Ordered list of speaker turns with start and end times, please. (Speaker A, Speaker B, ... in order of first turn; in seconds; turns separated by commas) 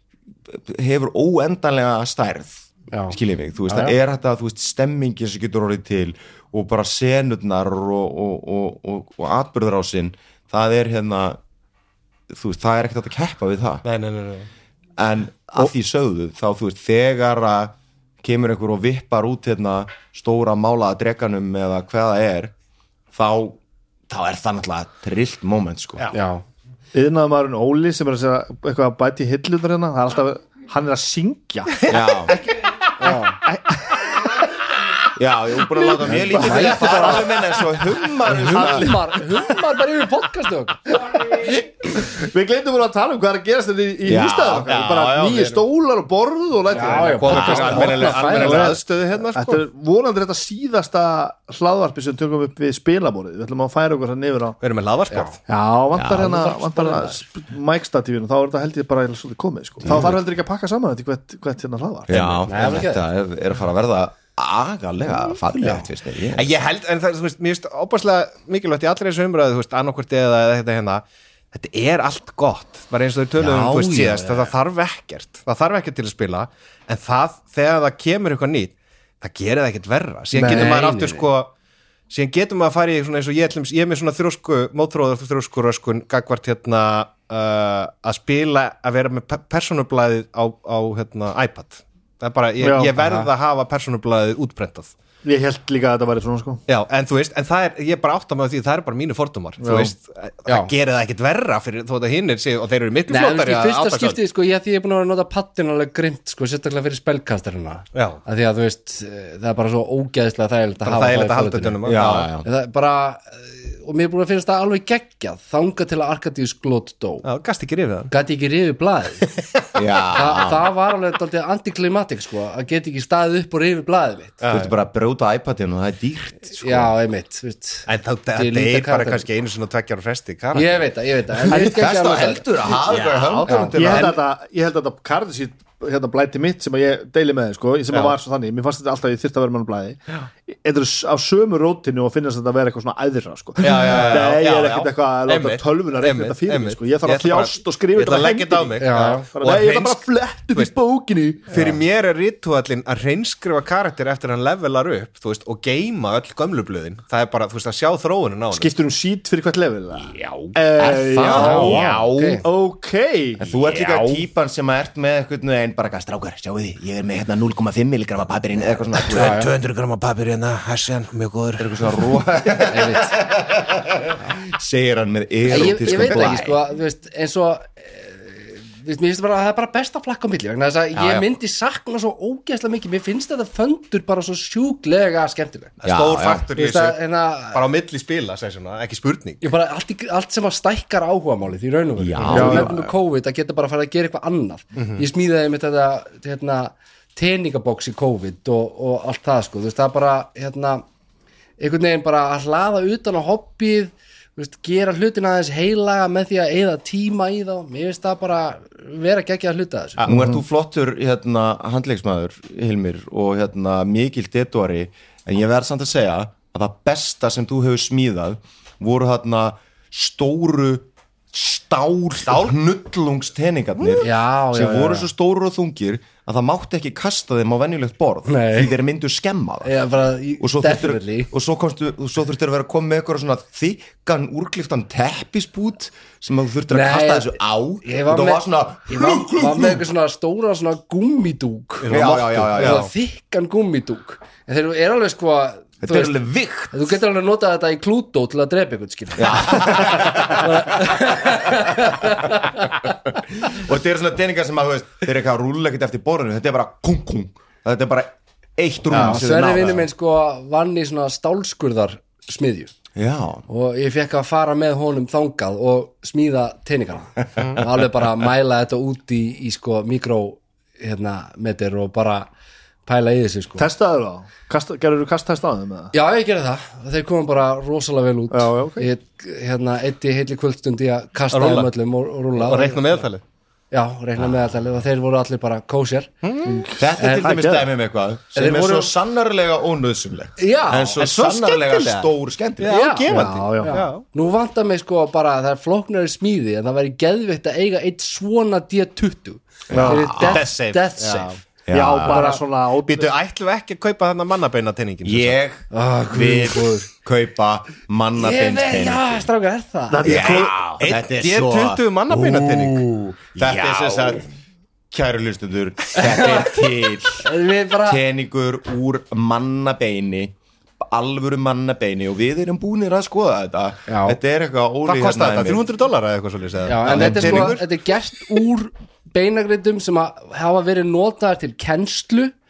Speaker A: 0.5-11.4, Speaker B: 2.9-3.2, Speaker B: 3.7-4.0, Speaker A: 12.3-13.8, Speaker C: 13.8-14.5, Speaker A: 15.0-22.5, Speaker A: 23.1-26.1, Speaker B: 26.1-26.4, Speaker D: 26.9-31.9, Speaker A: 31.9-32.4, Speaker B: 33.0-33.4, Speaker D: 33.0-34.4, Speaker A: 35.1-39.2, Speaker D: 35.9-37.3, Speaker B: 36.1-37.3, Speaker B: 38.3-40.8, Speaker D: 38.5-39.0, Speaker D: 41.3-54.6, Speaker A: 44.0-45.6, Speaker C: 44.7-45.4, Speaker B: 46.7-48.7, Speaker C: 47.0-49.6, Speaker A: 47.3-48.2, Speaker C: 54.6-55.4, Speaker B: 55.1-55.4, Speaker D: 55.5-62.1, Speaker A: 55.9-56.4, Speaker B: 56.1-57.2, Speaker A: 59.8-60.1, Speaker A: 62.1-66.5, Speaker B: 62.5-63.0, Speaker B: 65.6-65.9, Speaker C: 66.3-81.5, Speaker B: 73.4-74.5, Speaker D: 80.3-80.8, Speaker B: 80.4-81.3, Speaker C: 82.1-94.9, Speaker D: 92.6-92.9, Speaker B: 93.0-93.3, Speaker D: 95.2-96.6, Speaker C: 96.7-104.2, Speaker D: 99.6-99.9, Speaker B: 103.1-117.3, Speaker C: 107.9-108.2, Speaker C: 110.8-112.3, Speaker A: 111.8-112.5, Speaker C: 117.2-118.1, Speaker B: 118.1-119.3, Speaker A: 119.8-120.7, Speaker B: 120.2-124.4, Speaker C: 124.4-124.7, Speaker A: 124.5-126.9, Speaker B: 126.6-129.2, Speaker C: 127.9-130.9, Speaker B: 130.5-132.7, Speaker D: 131.5-131.8, Speaker A: 131.6-134.2, Speaker C: 132.9-133.4, Speaker B: 133.5-134.1, Speaker D: 133.6-151.7, Speaker C: 137.9-138.2, Speaker C: 143.6-150.7, Speaker B: 148.8-149.3, Speaker C: 151.5-158.7, Speaker D: 158.5-161.8, Speaker A: 160.8-162.4, Speaker B: 161.2-162.4, Speaker D: 162.4-163.4, Speaker A: 163.4-169.4, Speaker C: 163.6-164.2, Speaker C: 169.1-171.8, Speaker B: 169.2-169.5, Speaker A: 171.6-176.6, Speaker B: 172.7-173.2, Speaker B: 175.5-185.7, Speaker A: 185.8-186.5, Speaker C: 185.8-189.4, Speaker B: 186.6-187.6, Speaker B: 189.4-200.8, Speaker A: 192.0-192.9, Speaker D: 192.3-192.7, Speaker C: 194.8-195.0, Speaker B: 201.6-210.1, Speaker A: 210.0-229.7, Speaker C: 222.3-222.6, Speaker B: 224.0-225.1, Speaker B: 228.3-228.7, Speaker B: 229.6-231.3, Speaker A: 230.4-239.8, Speaker B: 236.7-241.9, Speaker C: 241.8-242.9, Speaker A: 241.9-242.9, Speaker B: 242.6-246.2, Speaker A: 245.8-247.0, Speaker B: 246.7-252.8, Speaker A: 249.2-259.9, Speaker B: 258.9-262.7, Speaker A: 262.9-263.4, Speaker B: 263.5-272.3, Speaker B: 272.9-273.7, Speaker D: 273.6-275.9, Speaker B: 275.9-283.1, Speaker D: 278.3-278.9, Speaker C: 281.3-281.7, Speaker C: 282.3-283.2, Speaker B: 283.7-286.1, Speaker C: 286.2-286.7, Speaker D: 286.4-287.7, Speaker A: 286.8-292.9, Speaker B: 287.0-287.5, Speaker B: 288.4-288.9, Speaker B: 290.4-291.0, Speaker C: 291.0-294.0, Speaker B: 292.6-301.4, Speaker D: 293.1-293.8, Speaker A: 299.7-300.4, Speaker D: 299.7-300.1, Speaker C: 300.2-301.4, Speaker A: 301.7-302.2, Speaker D: 301.7-303.1, Speaker B: 302.1-302.4, Speaker C: 302.8-305.4, Speaker A: 305.0-309.3, Speaker B: 305.7-306.9, Speaker B: 308.2-310.2, Speaker D: 309.9-310.6, Speaker A: 310.0-314.3, Speaker C: 310.1-314.2, Speaker A: 314.9-317.3, Speaker B: 315.9-316.6, Speaker B: 317.2-318.0, Speaker A: 317.8-325.7, Speaker B: 323.9-324.2, Speaker C: 324.9-327.6, Speaker B: 326.7-332.3, Speaker A: 326.8-327.6